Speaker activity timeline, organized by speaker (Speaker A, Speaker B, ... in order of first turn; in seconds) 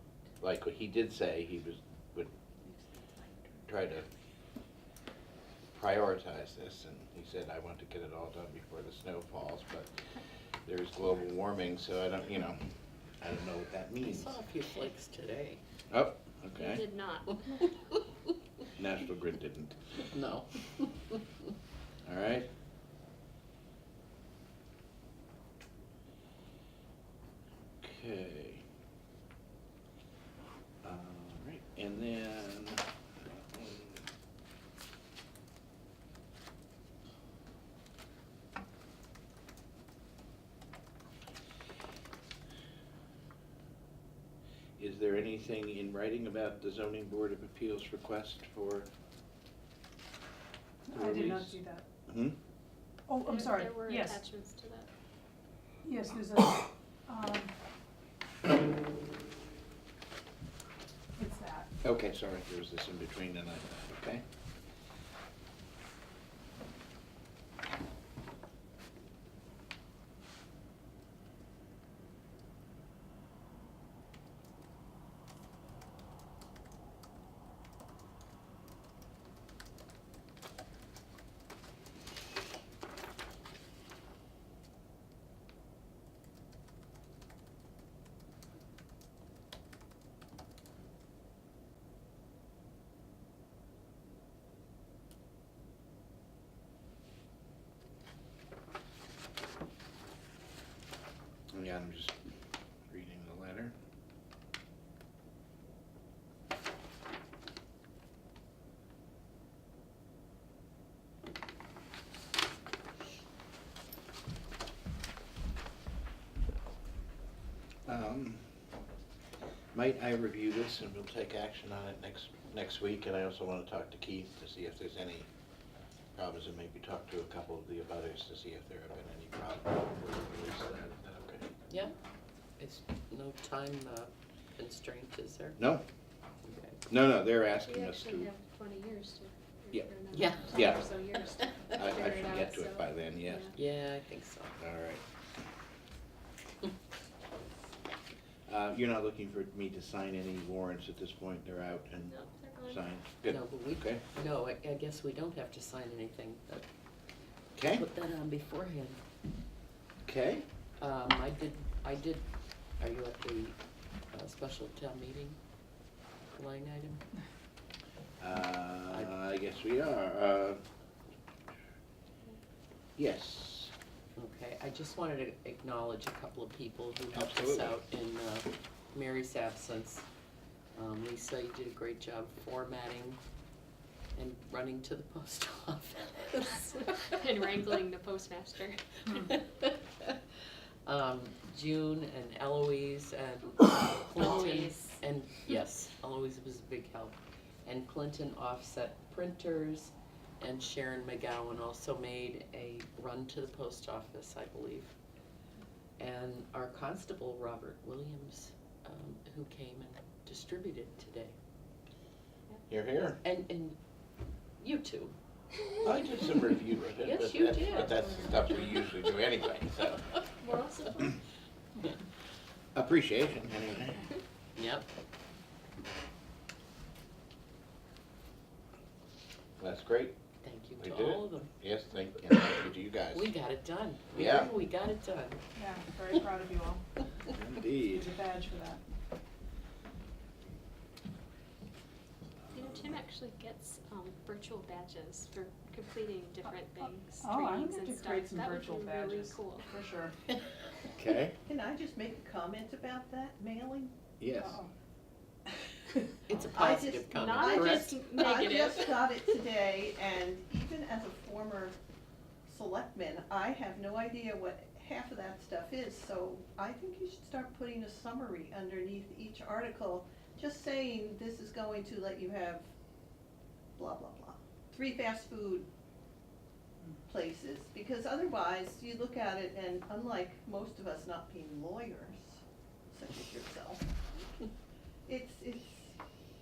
Speaker A: 0.4-2.3, 3.7-4.1, 5.7-9.9, 10.7-12.6, 13.2-14.3, 15.9-16.8, 18.8-20.0, 22.0-22.5, 27.8-28.6, 30.8-34.0, 44.8-48.9, 50.9-52.4, 61.8-64.2, 101.5-102.2, 102.9-103.7, 117.8-118.5, 119.7-125.3, 126.1-131.5, 135.6-135.8, 136.9-138.3, 140.5-140.8, 141.7-143.5, 144.6-145.0, 148.5-154.0, 157.6-157.8, 160.0-160.4, 168.2-170.6, 173.0-173.7, 177.1-177.8, 212.7-213.2, 215.8-220.0, 222.7-224.0, 229.6-230.2, 230.8-233.3, 234.1-234.5, 237.3-238.1, 250.9-251.3, 254.2-254.6
Speaker B: 14.0-15.6, 20.1-21.2, 132.6-135.6, 136.4-136.8, 140.1-140.7, 143.5-144.6, 153.3-156.6, 157.6-159.0, 160.8-162.2, 162.8-163.6, 164.1-165.4, 166.3-167.0, 168.9-169.1, 174.2-180.1, 180.7-183.2, 184.2-187.1, 189.1-190.2, 190.8-204.9, 206.0-211.3, 213.2-213.8, 214.6-215.1, 217.0-218.5, 224.6-224.8, 230.4-231.5, 233.1-235.4, 256.3-257.9
Speaker C: 16.5-17.6, 53.2-54.9, 137.6-143.5, 152.1-152.8, 187.1-188.9, 194.1-194.9, 220.4-221.2, 242.5-249.7, 257.1-259.0
Speaker D: 50.8-51.8, 53.1-54.2, 55.8-57.5, 61.2-61.7, 235.6-236.8, 237.9-238.8, 246.8-250.1, 254.4-254.7
Speaker E: 251.4-253.9, 256.5-261.8, 262.4-272.7, 273.8-275.7, 277.1-283.9, 285.1-285.9